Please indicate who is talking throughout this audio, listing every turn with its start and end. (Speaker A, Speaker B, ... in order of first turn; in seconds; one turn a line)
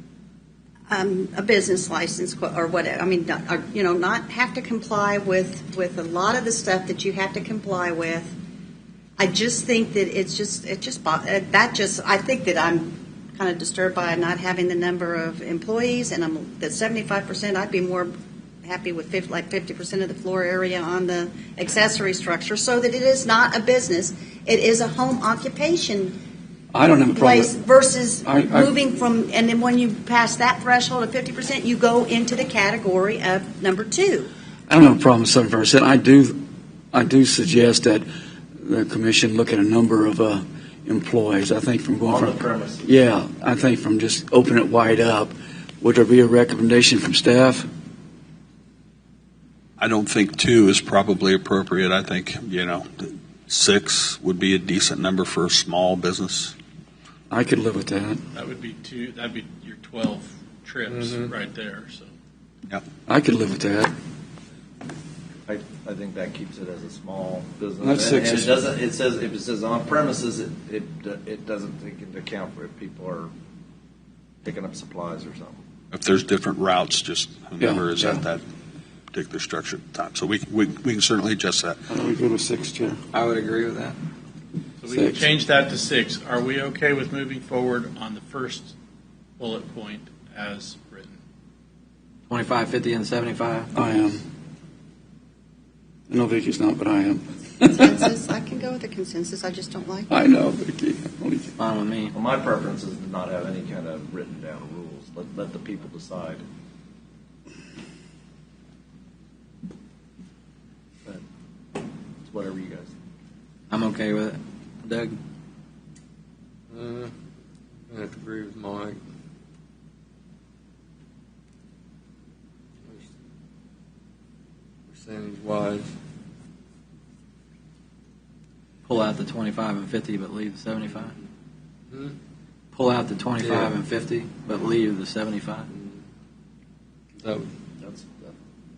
Speaker A: 0.9-8.3
Speaker A: 9.2-18.1
Speaker A: 18.6-26.2
Speaker B: 26.7-27.5
Speaker A: 27.1-34.3
Speaker B: 28.2-28.7
Speaker B: 34.7-38.0
Speaker B: 38.6-47.6
Speaker C: 42.0-42.9
Speaker D: 49.8-56.5
Speaker B: 57.3-58.2
Speaker E: 58.3-62.1
Speaker F: 60.9-61.3
Speaker B: 63.1-63.9
Speaker C: 65.5-73.3
Speaker B: 67.8-68.6
Speaker C: 74.4-75.6
Speaker D: 75.9-78.4
Speaker B: 77.6-78.2
Speaker D: 79.1-81.8
Speaker B: 81.9-83.0
Speaker G: 83.1-84.0
Speaker E: 84.8-88.7
Speaker B: 84.9-85.3
Speaker E: 89.4-91.2
Speaker G: 92.3-93.7
Speaker B: 93.7-94.2
Speaker B: 96.1-98.0
Speaker A: 97.7-100.1
Speaker B: 100.1-101.5
Speaker G: 101.6-102.1
Speaker C: 102.1-106.4
Speaker C: 112.2-112.9
Speaker G: 113.7-115.2
Speaker F: 116.7-117.1
Speaker F: 117.9-119.0
Speaker F: 124.9-125.9
Speaker G: 128.8-131.1
Speaker G: 132.7-135.7
Speaker F: 133.3-133.8
Speaker F: 135.7-136.0
Speaker F: 137.2-137.5
Speaker C: 137.8-138.3